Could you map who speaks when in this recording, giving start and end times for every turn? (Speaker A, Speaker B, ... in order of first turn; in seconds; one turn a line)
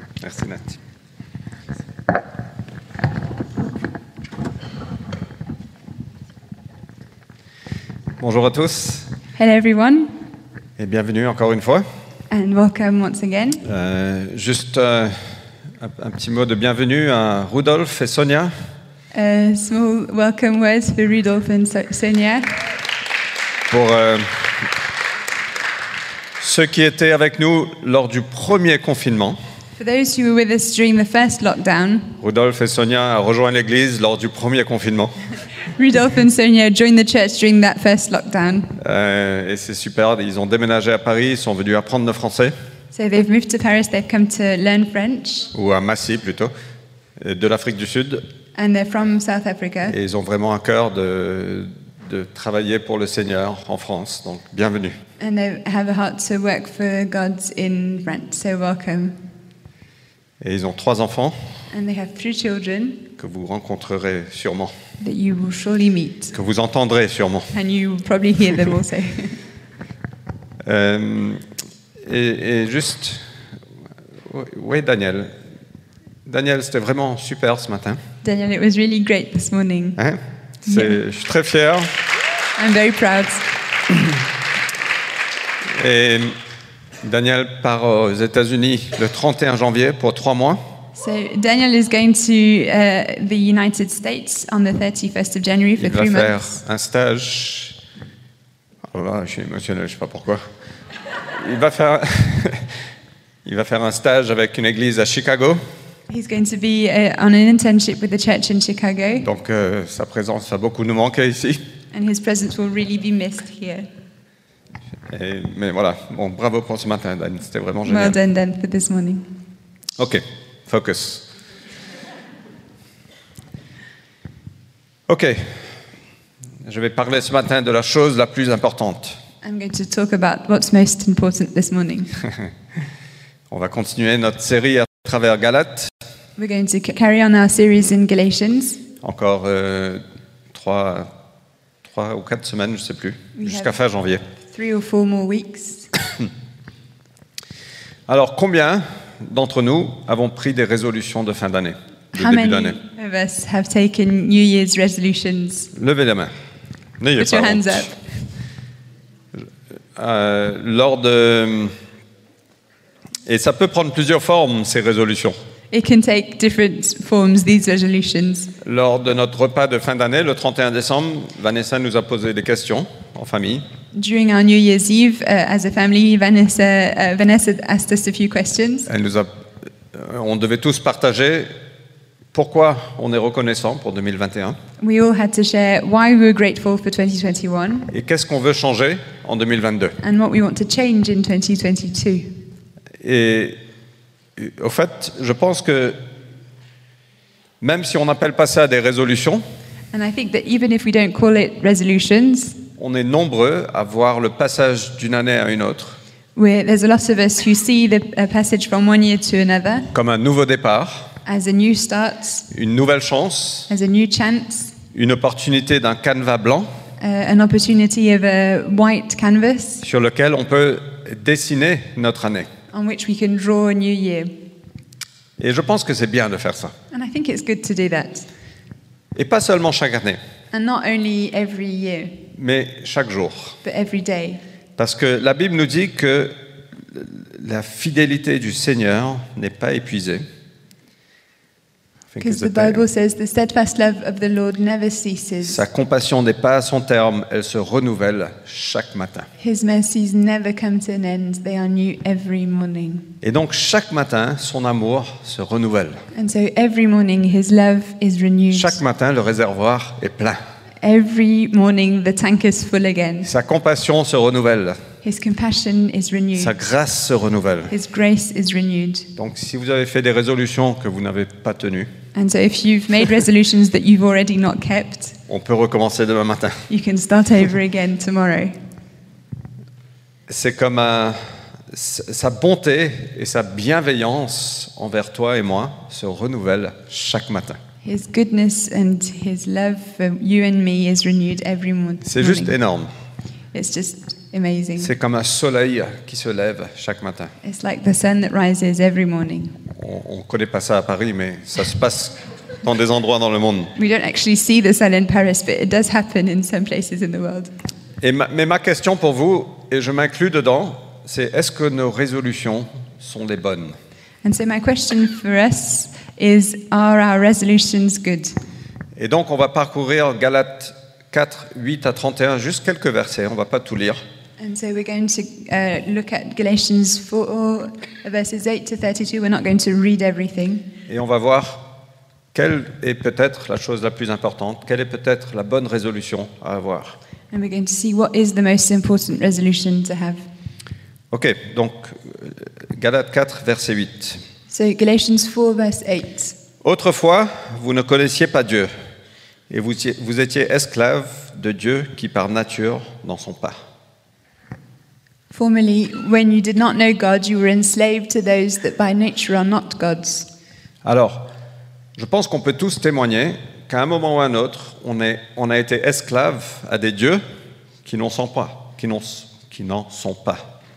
Speaker A: 0.2-0.8
Speaker A: 8.2-9.1
Speaker B: 9.3-10.1
Speaker A: 10.8-11.9
Speaker B: 12.3-13.6
Speaker A: 13.6-18.5
Speaker B: 19.1-22.6
Speaker A: 23.7-24.7
Speaker A: 26.4-29.4
Speaker B: 29.8-32.1
Speaker A: 32.2-35.1
Speaker B: 35.8-38.8
Speaker A: 38.8-42.5
Speaker B: 42.9-45.5
Speaker A: 45.5-46.5
Speaker A: 47.2-48.2
Speaker B: 48.5-50.0
Speaker A: 49.9-55.0
Speaker B: 55.2-59.2
Speaker A: 60.4-61.4
Speaker B: 61.7-63.1
Speaker A: 63.2-64.8
Speaker B: 65.0-66.3
Speaker A: 66.3-67.5
Speaker B: 67.5-69.4
Speaker A: 70.6-71.4
Speaker A: 72.0-73.3
Speaker A: 74.3-75.3
Speaker A: 76.3-78.0
Speaker B: 78.2-80.0
Speaker A: 80.0-82.0
Speaker B: 80.7-81.0
Speaker B: 82.6-83.5
Speaker A: 85.7-86.4
Speaker A: 87.0-90.6
Speaker B: 91.0-96.6
Speaker A: 95.8-97.8
Speaker A: 98.9-100.5
Speaker A: 101.3-102.8
Speaker A: 103.5-105.6
Speaker B: 106.1-109.3
Speaker A: 109.2-111.6
Speaker B: 111.9-113.9
Speaker A: 115.1-118.2
Speaker B: 117.8-119.2
Speaker A: 120.0-121.2
Speaker A: 125.1-125.7
Speaker A: 126.7-129.2
Speaker B: 129.4-132.1
Speaker A: 133.5-135.9
Speaker B: 136.4-138.8
Speaker A: 139.0-141.1
Speaker A: 141.8-144.2
Speaker B: 143.3-143.8
Speaker B: 144.5-145.9
Speaker A: 148.1-152.8
Speaker B: 152.1-155.7
Speaker A: 155.7-156.3
Speaker A: 157.0-157.9
Speaker B: 157.2-157.9
Speaker A: 160.0-161.8
Speaker A: 163.3-165.4
Speaker B: 165.7-168.5
Speaker A: 168.6-173.7
Speaker B: 173.9-178.9
Speaker A: 178.9-181.5
Speaker A: 182.3-184.6
Speaker B: 184.8-187.9
Speaker A: 187.9-190.0
Speaker B: 190.0-192.3
Speaker A: 193.0-193.6
Speaker A: 194.4-196.0
Speaker A: 197.6-199.4
Speaker B: 199.9-202.6
Speaker A: 202.8-206.0
Speaker B: 206.4-209.9
Speaker A: 209.9-211.2
Speaker B: 211.2-212.5
Speaker A: 212.5-213.7
Speaker B: 213.7-214.8
Speaker A: 214.9-216.7
Speaker B: 217.0-219.8
Speaker A: 219.8-222.5
Speaker B: 222.7-224.3
Speaker A: 225.4-226.7
Speaker B: 226.9-228.3
Speaker A: 229.2-230.2
Speaker B: 230.5-232.2
Speaker A: 232.3-233.6
Speaker B: 233.6-234.4
Speaker A: 234.8-236.4
Speaker A: 236.9-240.3
Speaker A: 242.1-242.8
Speaker B: 242.2-245.6
Speaker A: 245.4-249.3
Speaker B: 249.4-253.1
Speaker A: 253.2-256.0
Speaker B: 256.1-258.8
Speaker A: 258.5-260.4
Speaker B: 260.8-263.3
Speaker A: 263.2-264.8
Speaker B: 265.0-266.5
Speaker A: 266.4-267.7
Speaker B: 267.7-269.1
Speaker A: 269.2-271.9
Speaker B: 272.1-275.2
Speaker A: 275.3-276.6
Speaker B: 276.7-278.6
Speaker A: 280.3-287.6
Speaker B: 287.8-292.6
Speaker A: 292.0-292.9
Speaker B: 293.5-294.9
Speaker A: 294.8-297.3
Speaker B: 297.4-299.6
Speaker A: 299.8-303.7
Speaker B: 303.8-307.5
Speaker A: 308.0-313.8
Speaker B: 314.2-318.4
Speaker A: 319.0-324.0
Speaker B: 324.4-330.6
Speaker A: 330.9-331.6
Speaker A: 332.3-337.0
Speaker B: 337.3-340.3
Speaker A: 341.1-344.2
Speaker B: 344.5-346.4
Speaker A: 346.6-348.7
Speaker A: 349.5-353.6
Speaker B: 355.3-360.3
Speaker A: 360.8-361.3
Speaker A: 362.0-367.2
Speaker A: 367.9-370.5